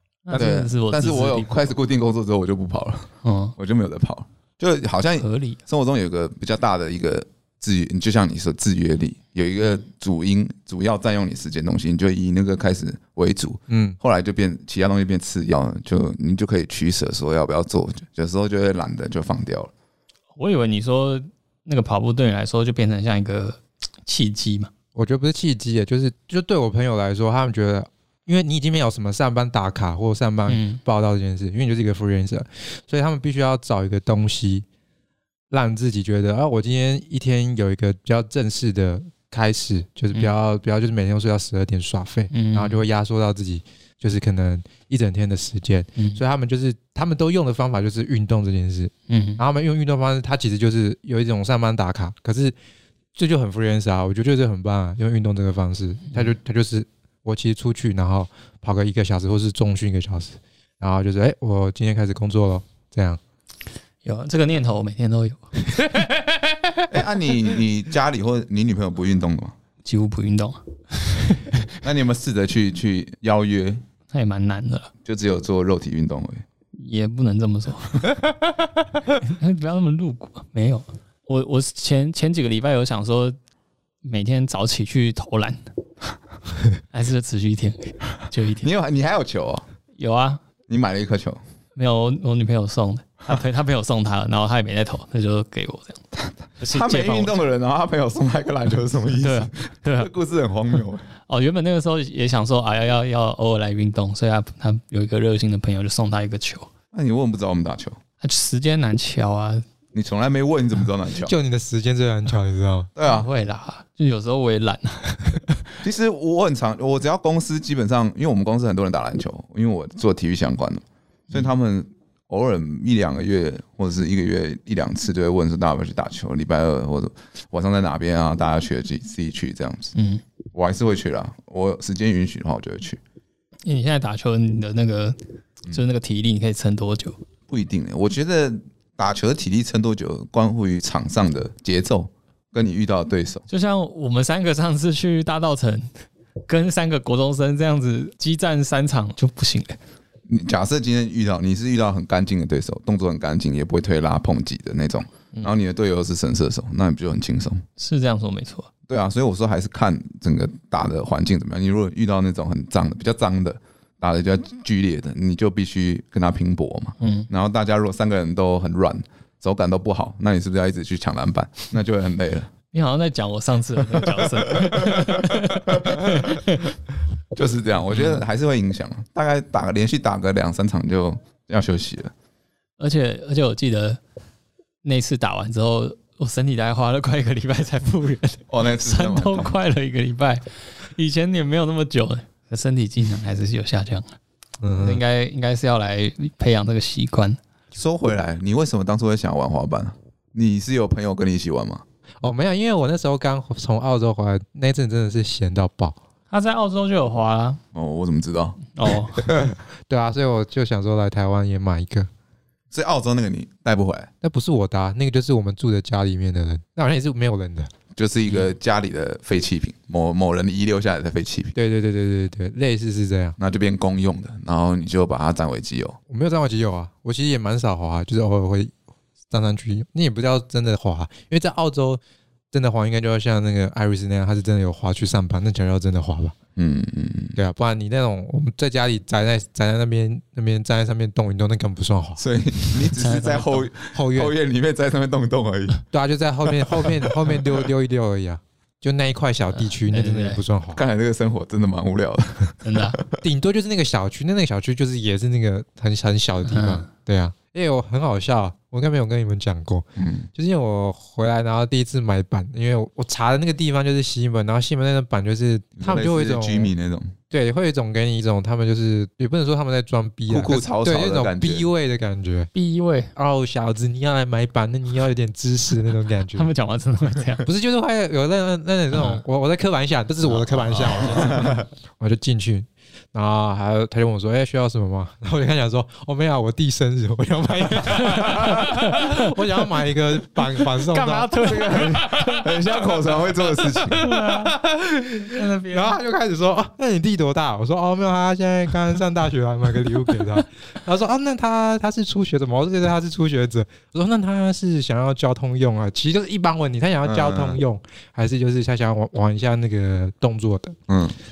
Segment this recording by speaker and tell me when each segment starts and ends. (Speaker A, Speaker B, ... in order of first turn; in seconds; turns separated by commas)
Speaker A: 0.2-1.7, Speaker B: 0.3-19.7, Speaker A: 3.2-3.5, Speaker A: 5.2-5.6, Speaker C: 13.7-14.0, Speaker A: 20.4-24.7, Speaker C: 24.9-34.6, Speaker A: 30.5-30.8, Speaker C: 35.5-52.5, Speaker A: 42.3-42.8, Speaker A: 49.1-49.4, Speaker C: 53.1-63.2, Speaker A: 64.0-66.0, Speaker B: 66.9-69.5, Speaker A: 69.8-71.7, Speaker B: 71.8-73.8, Speaker A: 74.1-74.9, Speaker B: 75.0-76.4, Speaker A: 76.7-78.2, Speaker A: 79.2-83.3, Speaker A: 84.0-85.6, Speaker A: 86.9-88.7, Speaker B: 88.6-89.6, Speaker A: 90.0-90.4, Speaker B: 90.7-91.4, Speaker A: 91.8-96.0, Speaker B: 96.2-101.0, Speaker A: 96.6-97.3, Speaker A: 99.2-100.1, Speaker A: 101.2-106.7, Speaker B: 106.9-108.0, Speaker A: 108.2-109.7, Speaker B: 109.9-111.3, Speaker C: 111.2-112.9, Speaker B: 113.0-113.3, Speaker A: 113.0-115.7, Speaker B: 115.8-129.9, Speaker A: 129.9-130.2, Speaker B: 130.5-133.0, Speaker A: 133.6-137.2, Speaker B: 137.5-143.4, Speaker A: 143.5-145.9, Speaker A: 146.5-149.8, Speaker B: 150.3-157.6, Speaker A: 157.8-158.7, Speaker B: 158.8-172.5, Speaker A: 167.0-167.3, Speaker A: 172.7-176.7, Speaker B: 174.5-176.1, Speaker B: 177.3-182.1, Speaker A: 177.9-178.2, Speaker A: 182.8-184.0, Speaker A: 184.8-194.2, Speaker B: 188.5-189.5, Speaker C: 194.6-195.0, Speaker A: 194.8-197.4, Speaker B: 197.7-201.8, Speaker C: 202.2-206.0, Speaker A: 206.3-207.6, Speaker B: 207.7-209.4, Speaker A: 208.8-209.2, Speaker C: 209.9-212.1, Speaker B: 212.7-214.1, Speaker C: 214.2-217.7, Speaker B: 217.9-221.6, Speaker C: 221.6-223.3, Speaker B: 223.4-226.0, Speaker C: 226.1-228.7, Speaker C: 229.3-232.0, Speaker C: 232.5-236.3, Speaker B: 236.6-237.4, Speaker C: 237.3-242.2, Speaker B: 242.2-245.8, Speaker A: 242.9-243.6, Speaker C: 243.9-244.3, Speaker C: 245.9-250.8, Speaker B: 246.6-247.4, Speaker A: 249.5-250.4, Speaker B: 250.7-253.2, Speaker A: 252.6-253.0, Speaker C: 253.2-266.7, Speaker A: 256.4-256.9, Speaker B: 260.0-260.3, Speaker B: 265.8-267.1, Speaker C: 267.3-272.5, Speaker B: 270.3-271.7, Speaker A: 272.5-273.1, Speaker C: 273.1-276.5, Speaker A: 276.3-277.4, Speaker C: 277.4-292.0, Speaker A: 278.9-279.2, Speaker A: 280.2-281.3, Speaker A: 287.9-289.4, Speaker A: 290.8-294.6, Speaker B: 291.4-294.1, Speaker C: 293.9-310.8, Speaker A: 295.3-296.0, Speaker B: 307.0-307.6, Speaker B: 310.9-311.2